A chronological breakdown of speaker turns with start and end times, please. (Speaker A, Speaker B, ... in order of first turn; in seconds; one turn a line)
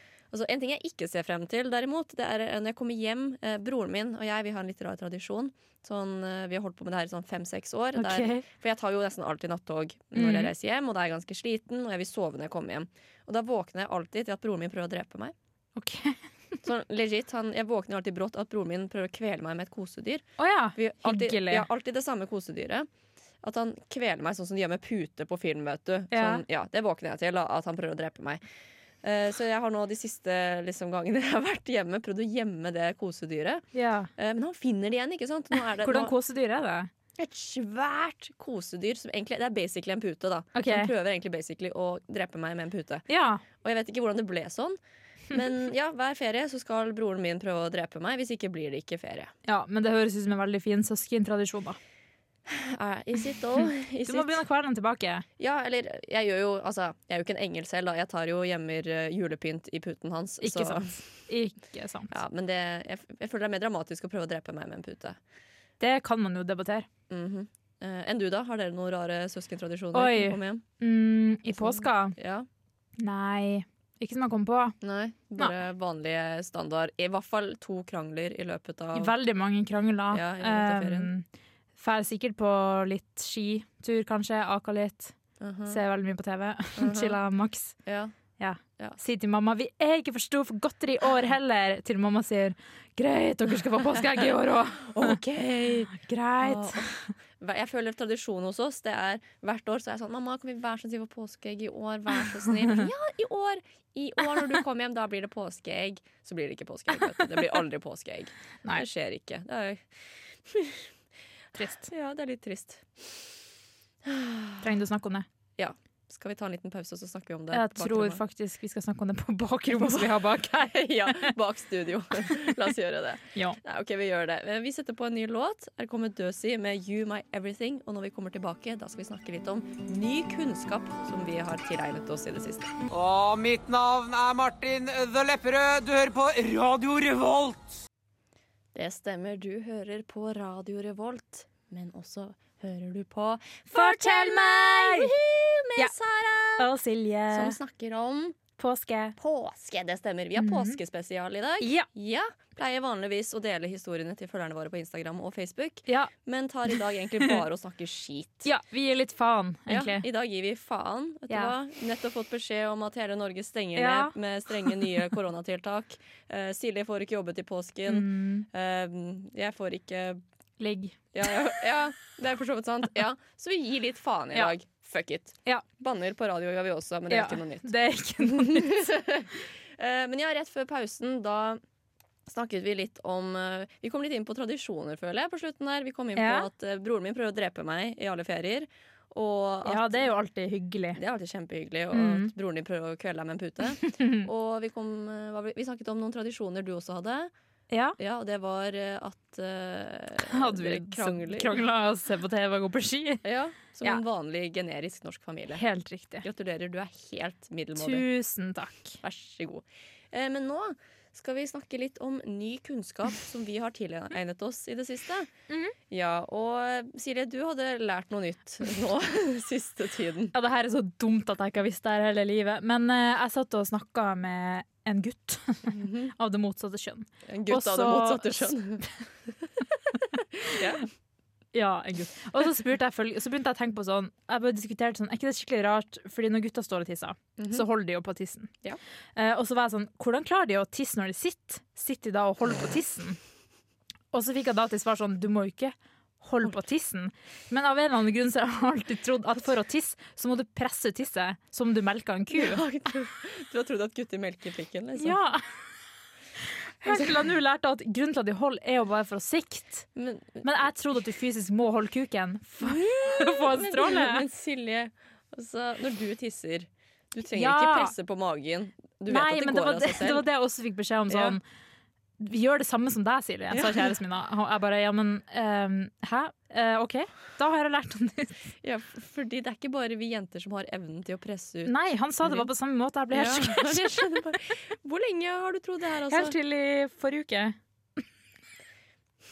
Speaker A: 0.3-15.3
Speaker B: 8.0-8.4
Speaker B: 10.1-10.5
Speaker B: 15.8-16.2
Speaker A: 16.6-22.9
Speaker B: 20.4-21.6
Speaker A: 23.4-28.4
Speaker B: 26.1-26.4
Speaker A: 29.0-33.6
Speaker B: 33.7-34.1
Speaker A: 34.2-36.1
Speaker B: 35.8-36.9
Speaker A: 37.2-43.0
Speaker B: 40.5-40.9
Speaker B: 43.1-43.4
Speaker A: 43.6-44.8
Speaker A: 45.3-49.3
Speaker B: 49.5-51.8
Speaker A: 52.5-54.4
Speaker B: 54.0-55.2
Speaker A: 55.4-61.0
Speaker B: 60.4-62.1
Speaker A: 62.1-65.2
Speaker B: 65.8-66.8
Speaker A: 67.1-70.6
Speaker B: 69.9-72.1
Speaker A: 71.5-72.5
Speaker B: 73.0-74.8
Speaker A: 74.8-79.1
Speaker B: 78.9-81.2
Speaker A: 80.1-81.1
Speaker B: 81.8-85.1
Speaker A: 85.4-85.8
Speaker B: 85.7-87.8
Speaker A: 86.8-87.2
Speaker A: 87.8-88.1
Speaker B: 88.4-95.2
Speaker A: 94.9-109.8
Speaker B: 95.9-97.1
Speaker A: 110.5-110.9
Speaker B: 111.5-111.9
Speaker A: 111.9-113.3
Speaker A: 114.0-114.7
Speaker B: 114.6-115.2
Speaker A: 115.6-118.2
Speaker B: 117.5-121.3
Speaker A: 119.7-132.7
Speaker C: 132.9-137.8
Speaker A: 138.7-146.7
Speaker B: 143.7-145.1
Speaker B: 146.6-147.6
Speaker A: 147.3-148.4
Speaker B: 148.6-149.2
Speaker A: 149.2-158.5
Speaker B: 150.3-150.8
Speaker B: 151.6-151.9
Speaker B: 158.4-160.0
Speaker A: 159.7-170.2
Speaker B: 163.8-164.1
Speaker B: 167.8-168.4
Speaker B: 170.6-171.0
Speaker A: 171.1-177.7
Speaker B: 177.1-178.8
Speaker A: 178.2-181.6
Speaker A: 182.3-190.1
Speaker B: 186.2-186.5
Speaker B: 189.6-191.0
Speaker A: 190.9-197.3
Speaker B: 191.9-192.3
Speaker B: 193.8-194.3
Speaker B: 197.7-198.0
Speaker A: 198.0-201.5
Speaker B: 200.3-203.2
Speaker A: 203.2-205.6
Speaker B: 205.5-206.2
Speaker A: 206.2-208.1
Speaker B: 207.8-209.0
Speaker A: 209.0-215.3
Speaker B: 215.5-215.7
Speaker A: 215.9-220.3
Speaker B: 220.3-228.9
Speaker A: 225.7-226.1
Speaker A: 227.3-228.8
Speaker A: 230.4-230.8
Speaker B: 231.5-238.5
Speaker A: 237.4-237.6
Speaker B: 239.2-243.2
Speaker B: 244.1-252.6
Speaker A: 252.3-255.2
Speaker B: 255.0-255.4
Speaker B: 256.8-259.9
Speaker A: 259.9-260.4
Speaker B: 260.4-264.2
Speaker A: 262.6-270.2
Speaker B: 267.3-267.9
Speaker B: 269.1-271.4
Speaker A: 271.1-271.4
Speaker B: 272.2-278.3
Speaker A: 273.5-273.9
Speaker A: 278.6-282.5
Speaker B: 281.6-284.1
Speaker A: 283.1-286.3
Speaker B: 286.1-287.6